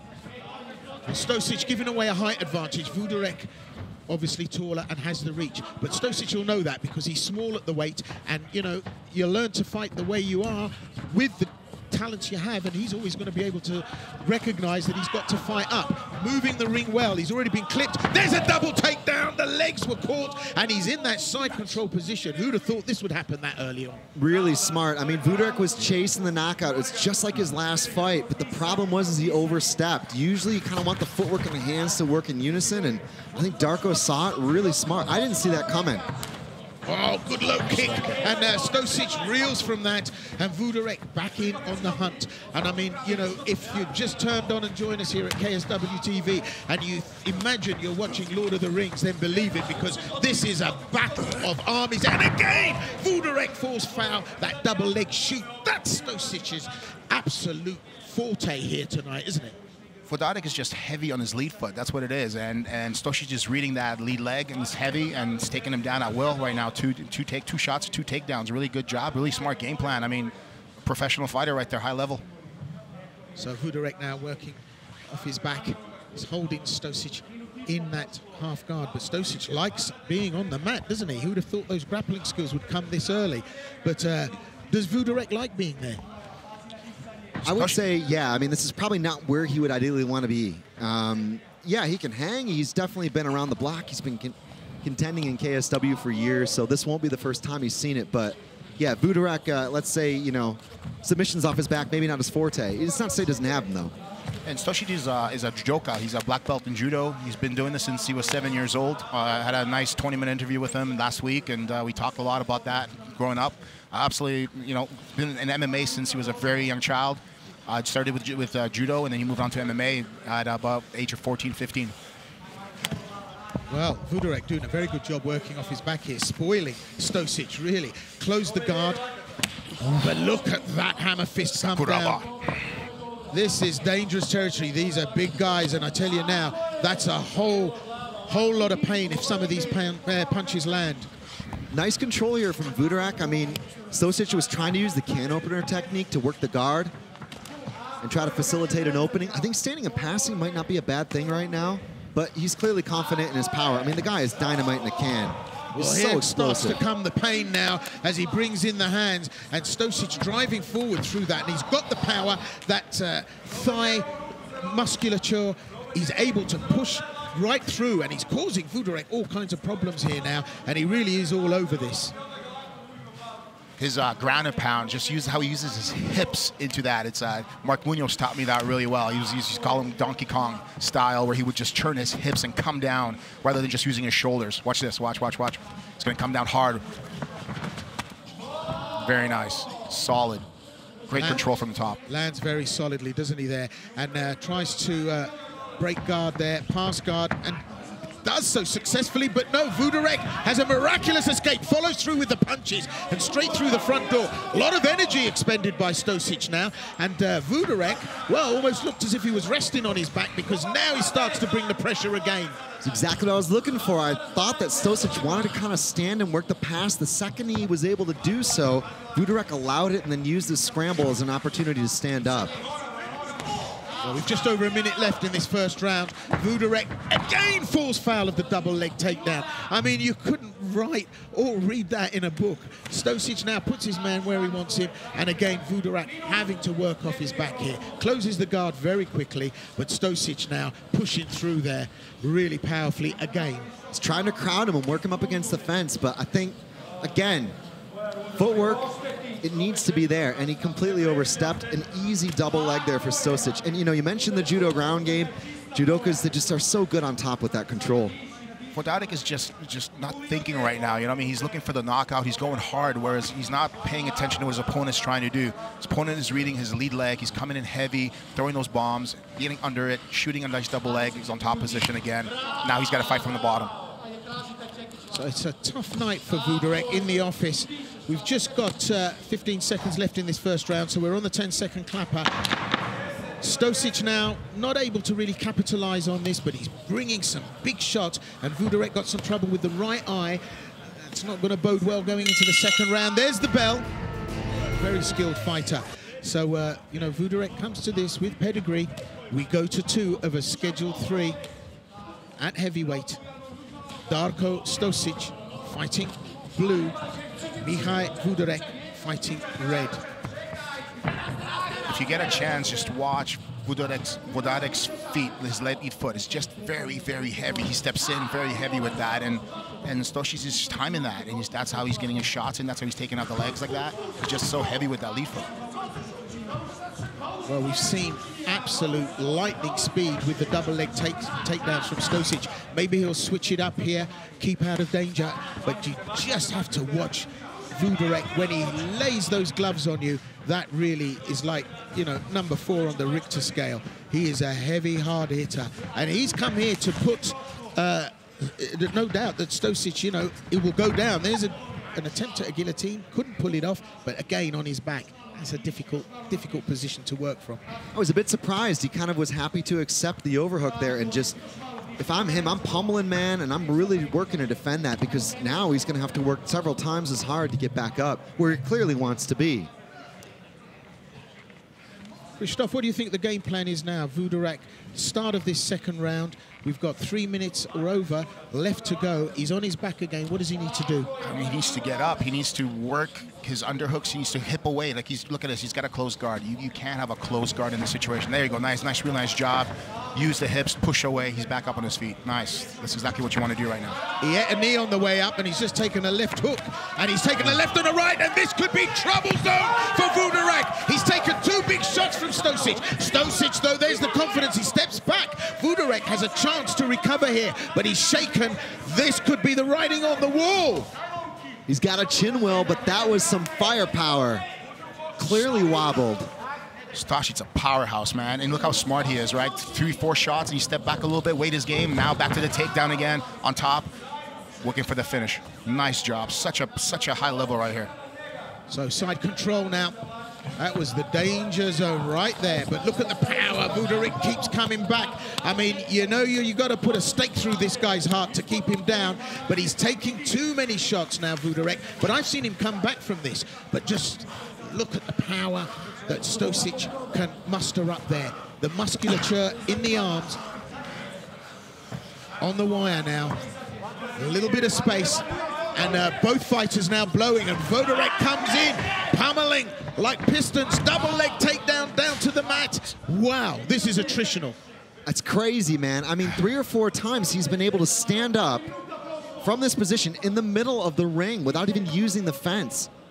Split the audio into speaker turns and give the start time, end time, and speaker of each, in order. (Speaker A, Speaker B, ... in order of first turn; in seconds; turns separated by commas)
Speaker A: 1.1-3.5, Speaker A: 4.1-24.0, Speaker B: 24.1-36.0, Speaker A: 36.8-59.5, Speaker C: 37.9-38.1, Speaker C: 60.1-72.2, Speaker A: 73.3-86.0, Speaker B: 87.4-103.9, Speaker C: 87.5-87.8, Speaker C: 104.4-121.9, Speaker A: 123.7-129.0, Speaker A: 129.8-132.2, Speaker C: 131.7-132.3, Speaker A: 133.3-141.1, Speaker B: 141.7-146.9, Speaker B: 148.0-156.8, Speaker A: 155.7-172.1, Speaker C: 173.8-186.8, Speaker C: 189.0-190.4, Speaker C: 191.1-192.0, Speaker A: 191.1-191.4, Speaker A: 192.1-197.6, Speaker A: 198.2-212.6, Speaker B: 212.8-222.6, Speaker A: 224.0-243.7, Speaker B: 243.9-247.6, Speaker B: 248.4-248.8, Speaker B: 249.4-258.1, Speaker C: 258.7-273.7, Speaker A: 275.1-282.3, Speaker A: 283.4-293.9, Speaker A: 294.6-301.4, Speaker A: 302.4-303.2, Speaker A: 304.1-307.0, Speaker A: 307.6-310.0, Speaker C: 311.9-325.5, Speaker A: 327.4-357.6, Speaker B: 357.9-361.4, Speaker B: 362.0-369.7, Speaker A: 372.4-381.1, Speaker C: 381.2-394.0, Speaker A: 394.2-410.9, Speaker B: 411.7-414.4, Speaker B: 415.2-416.3, Speaker C: 416.9-423.9, Speaker C: 424.6-427.9, Speaker A: 428.7-430.0, Speaker A: 430.6-450.4, Speaker A: 452.4-453.4, Speaker A: 454.1-464.6, Speaker B: 465.1-468.7, Speaker B: 469.4-472.9